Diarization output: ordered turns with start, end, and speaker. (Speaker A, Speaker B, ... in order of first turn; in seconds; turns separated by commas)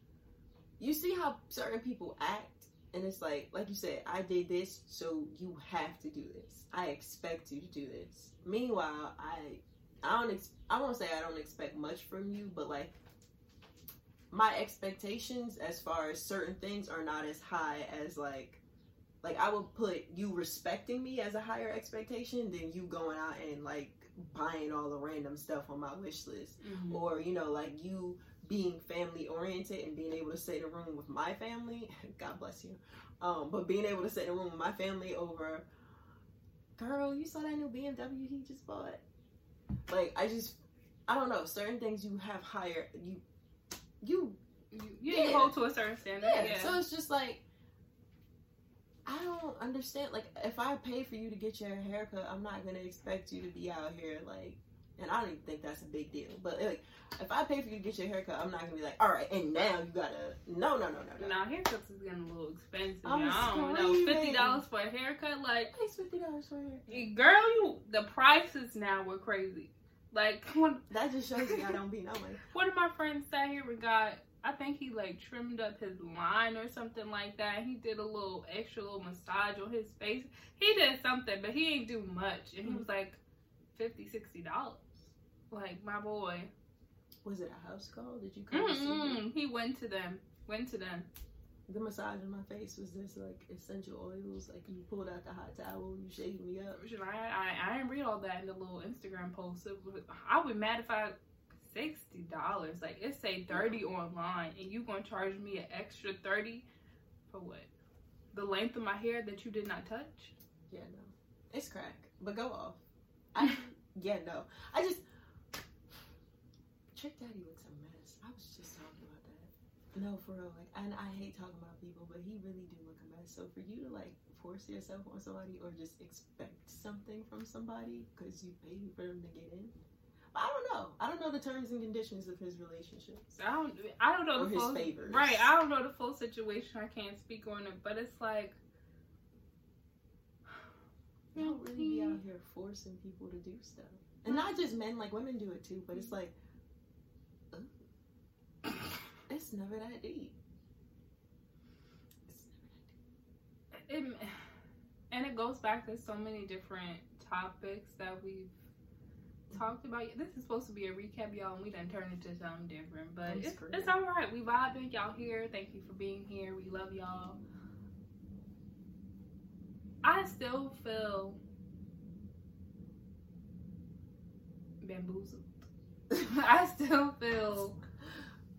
Speaker A: 0.8-13.0, Speaker A: 14.3-18.6, Speaker A: 19.2-35.7, Speaker B: 26.6-27.0, Speaker A: 36.8-39.0, Speaker A: 39.9-43.2, Speaker A: 44.0-44.4, Speaker B: 44.7-46.8, Speaker A: 45.1-45.5, Speaker A: 46.2-47.4, Speaker A: 49.0-61.3, Speaker B: 61.2-65.7, Speaker A: 63.0-64.6, Speaker A: 65.7-67.1, Speaker B: 66.9-70.9, Speaker A: 70.9-72.4, Speaker B: 71.5-71.7, Speaker B: 72.5-83.2, Speaker B: 83.7-86.5, Speaker A: 87.2-89.2, Speaker B: 88.5-91.1, Speaker A: 91.7-96.8, Speaker B: 96.8-106.7, Speaker A: 103.5-103.8, Speaker B: 107.3-107.7, Speaker B: 108.3-110.3, Speaker A: 110.7-112.8, Speaker A: 113.3-115.0, Speaker A: 116.9-129.7, Speaker A: 130.3-133.3, Speaker B: 133.3-138.6, Speaker A: 134.3-135.5, Speaker B: 141.3-142.2, Speaker A: 141.3-146.3, Speaker B: 144.3-144.5, Speaker A: 149.3-150.3, Speaker A: 152.3-152.9, Speaker B: 153.9-154.4, Speaker B: 155.1-158.5, Speaker B: 159.5-167.4, Speaker A: 163.2-163.9, Speaker B: 170.0-171.4, Speaker B: 174.8-175.7, Speaker B: 176.2-177.8